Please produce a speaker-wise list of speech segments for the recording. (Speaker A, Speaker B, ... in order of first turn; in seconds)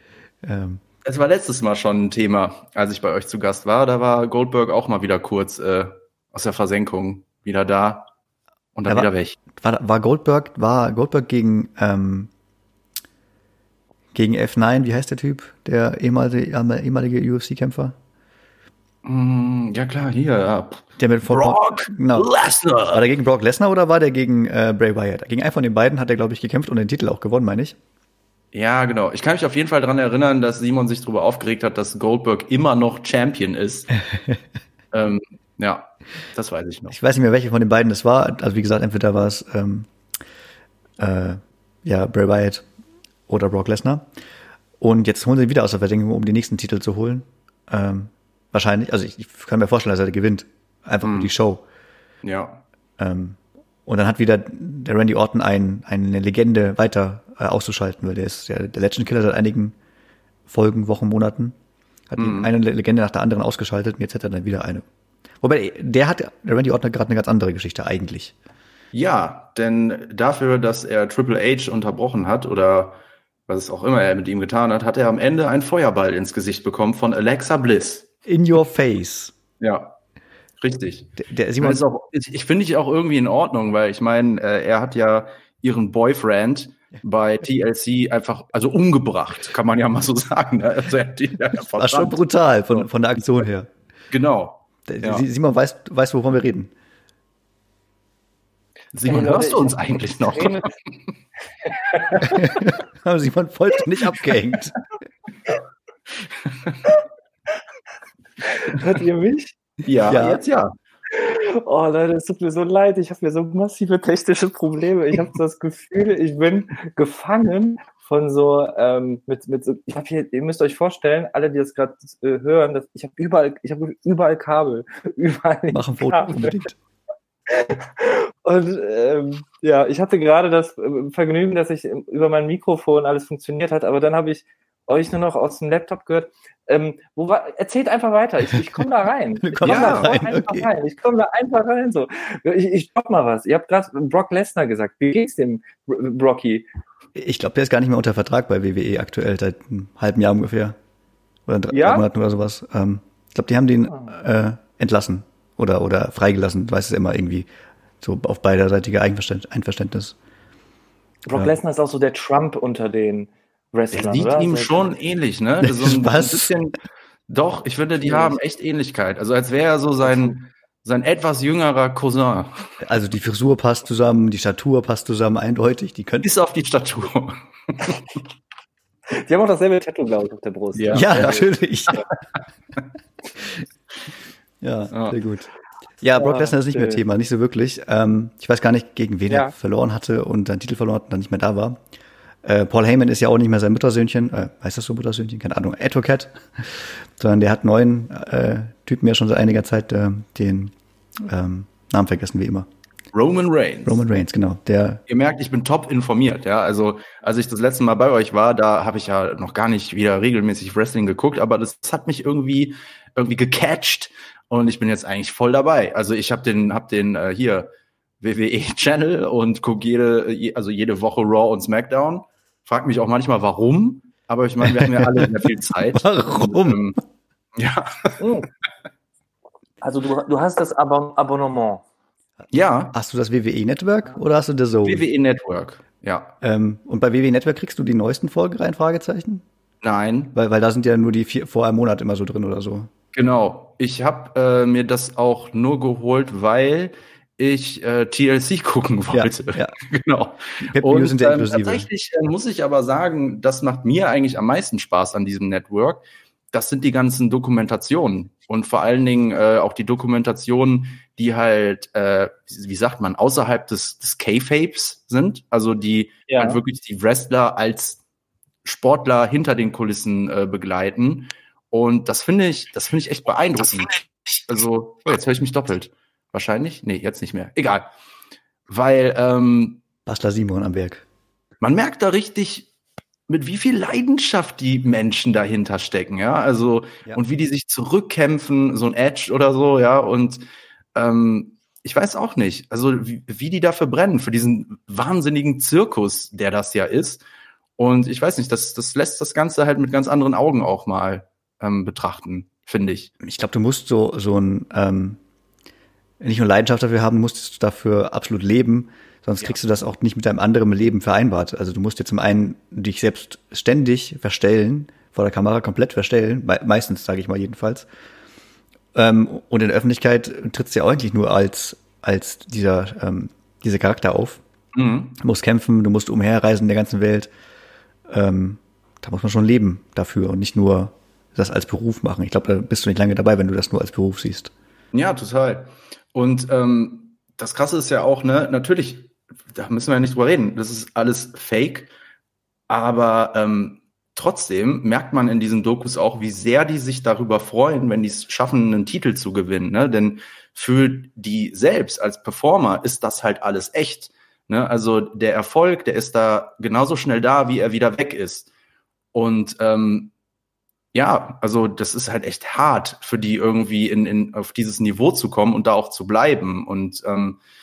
Speaker A: 0.4-0.8, 8.9-12.3, 14.1-18.0, 21.0-22.3, 22.9-27.8, 34.0-34.4, 36.9-39.9, 41.0-42.6, 43.3-44.1, 44.8-51.6, 53.0-59.8, 60.5-61.6, 62.1-64.8, 65.4-68.4, 78.3-79.3, 81.2-81.8, 91.7-93.7, 94.9-96.7, 102.3-104.8, 110.1-110.4, 125.7-126.8, 139.4-140.7, 147.2-150.8, 151.5-157.5, 158.0-160.2, 165.6-166.5, 172.8-176.3, 180.9-182.0, 184.6-185.5, 186.0-191.8, 192.4-202.7, 203.9-205.0, 224.7-226.9, 232.9-235.1, 236.4-239.4, 240.3-242.9, 249.1-249.8, 250.6-251.9, 280.1-281.0, 303.2-305.2, 306.2-317.9, 318.9-324.4, 325.2-327.3, 328.1-334.5
Speaker B: 1.1-8.1, 8.8-9.4, 19.0-23.1, 28.5-33.9, 34.9-37.0, 51.0-51.3, 52.2-52.6, 62.2-62.5, 68.9-78.1, 79.6-80.0, 80.6-92.2, 94.1-95.2, 98.9-100.9, 106.5-106.8, 109.8-110.7, 139.6-140.1, 163.9-166.8, 167.3-172.8, 176.2-178.2, 180.7-182.0, 184.9-185.2, 203.1-204.0, 205.1-217.7, 218.2-227.0, 227.6-228.2, 232.5-232.9, 234.8-236.3, 239.8-240.3, 243.1-268.0, 268.6-277.9, 278.7-279.8, 281.6-282.7, 283.3-290.4, 290.9-297.2, 297.8-303.1, 324.7-325.2, 334.9-341.9, 342.7-358.5, 359.1-360.1, 360.9-367.4
Speaker C: 99.1-100.7, 101.9-102.6, 108.4-109.6, 111.1-126.6, 127.5-146.7, 151.7-152.1, 161.3-164.9, 168.1-168.4, 179.1-181.4, 186.2-187.0, 189.3-189.5, 228.2-228.5, 229.8-231.8, 266.3-266.6